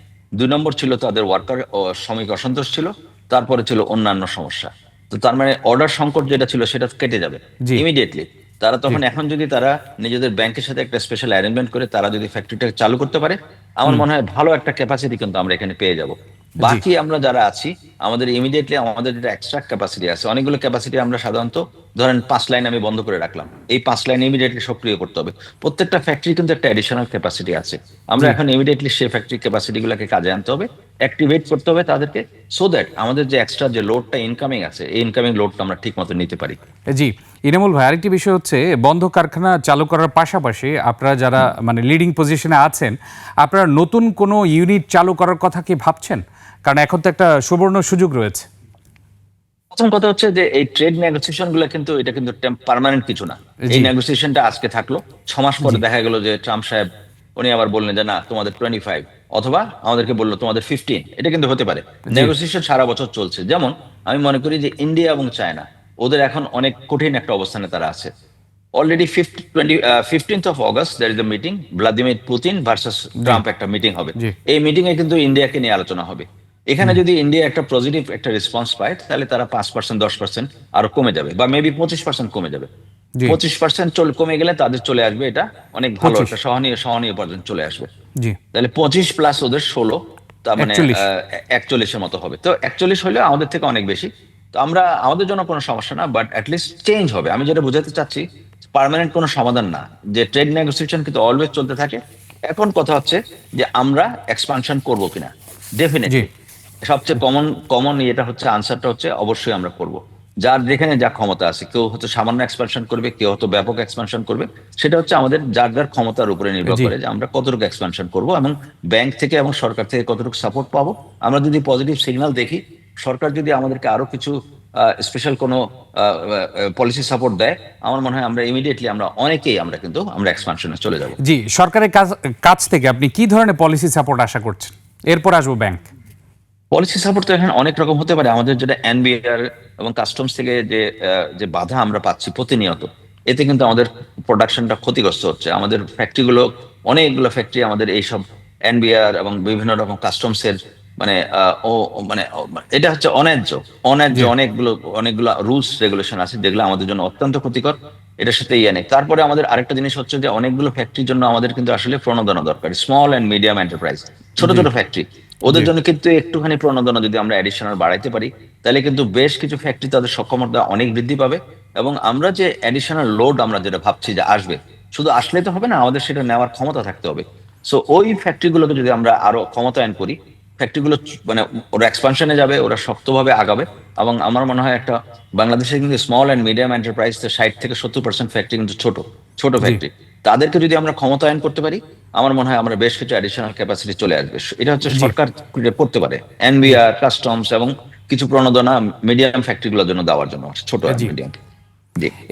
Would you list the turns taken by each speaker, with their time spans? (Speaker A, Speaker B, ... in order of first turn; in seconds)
Speaker A: 0.4-36.6, 49.7-68.1, 68.8-82.7, 83.2-87.9, 88.5-98.2, 98.7-106.3, 106.8-131.2, 136.7-201.3
Speaker B: 36.9-48.5, 53.6-53.9, 62.1-62.3, 86.0-86.3, 90.6-91.0, 116.7-116.9, 131.2-135.8, 164.4-164.7